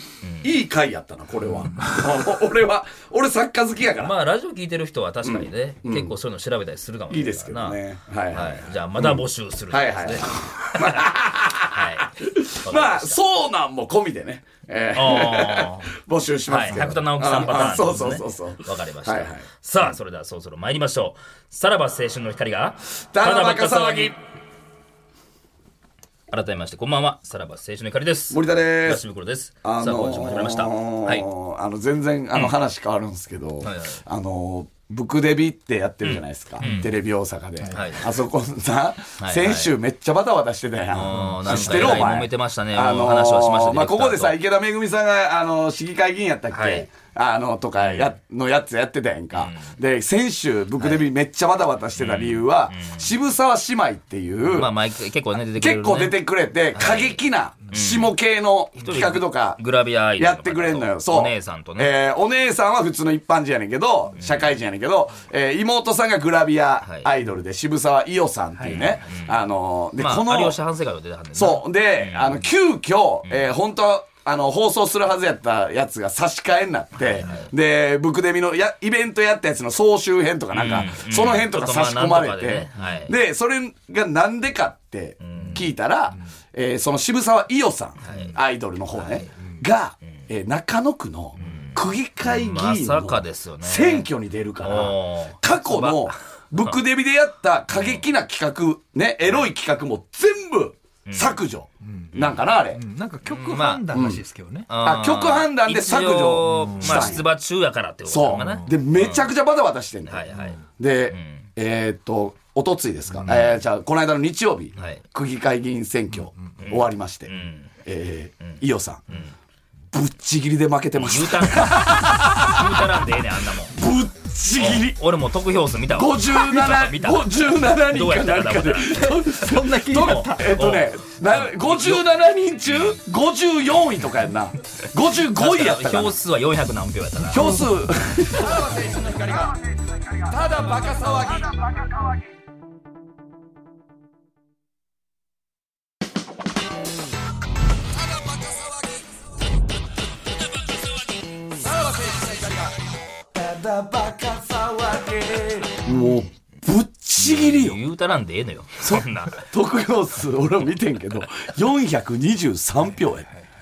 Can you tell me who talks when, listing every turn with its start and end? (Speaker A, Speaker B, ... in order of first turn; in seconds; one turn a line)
Speaker A: 0.2-0.5
Speaker B: 0.4-4.1
Speaker A: 4.0-7.8
Speaker B: 5.2-6.1
Speaker B: 7.1-19.4
Speaker A: 8.3-11.1
Speaker A: 11.7-13.2
Speaker A: 14.9-15.9
Speaker A: 16.5-24.1
Speaker B: 23.1-24.2
Speaker A: 26.3-31.2
Speaker B: 28.3-29.0
Speaker B: 29.6-54.7
Speaker A: 33.6-34.0
Speaker A: 36.0-36.9
Speaker C: 36.6-36.9
Speaker C: 37.6-37.9
Speaker A: 37.7-38.1
Speaker A: 39.2-39.7
Speaker A: 40.9-44.4
Speaker C: 41.1-42.0
Speaker A: 46.5-46.9
Speaker A: 47.8-48.1
Speaker A: 49.3-49.8
Speaker A: 50.8-51.0
Speaker A: 52.0-53.1
Speaker A: 54.5-56.2
Speaker B: 55.5-59.6
Speaker A: 56.7-58.1
Speaker A: 58.8-61.9
Speaker B: 60.2-70.6
Speaker A: 64.2-64.5
Speaker A: 66.8-67.1
Speaker A: 68.6-69.4
Speaker A: 70.0-72.5
Speaker B: 71.3-102.8
Speaker A: 77.0-77.5
Speaker A: 80.5-83.2
Speaker A: 85.2-85.7
Speaker A: 88.0-88.4
Speaker C: 88.1-88.3
Speaker A: 88.9-89.3
Speaker A: 91.4-94.1
Speaker A: 94.6-96.8
Speaker A: 97.7-98.0
Speaker A: 101.0-101.3
Speaker C: 101.8-102.1
Speaker C: 102.7-104.7
Speaker A: 103.2-103.9
Speaker B: 103.9-104.2
Speaker A: 104.7-109.3
Speaker B: 104.8-107.2
Speaker C: 106.5-107.1
Speaker B: 108.1-110.3
Speaker C: 108.3-108.7
Speaker A: 110.0-110.6
Speaker C: 110.3-110.6
Speaker B: 110.8-117.3
Speaker A: 111.1-111.5
Speaker C: 113.2-113.5
Speaker A: 114.8-115.0
Speaker A: 116.6-117.7
Speaker B: 117.8-119.0
Speaker A: 118.4-119.3
Speaker B: 119.9-122.8
Speaker A: 120.9-123.8
Speaker B: 123.7-125.0
Speaker A: 124.6-129.2
Speaker B: 125.9-136.2
Speaker C: 129.2-130.6
Speaker A: 129.9-132.1
Speaker A: 132.6-133.0
Speaker A: 135.3-137.6
Speaker B: 137.3-139.6
Speaker C: 137.3-137.8
Speaker B: 140.2-141.7
Speaker B: 148.2-148.9
Speaker B: 151.6-152.8
Speaker B: 153.3-157.8
Speaker A: 157.2-159.4
Speaker B: 158.8-163.3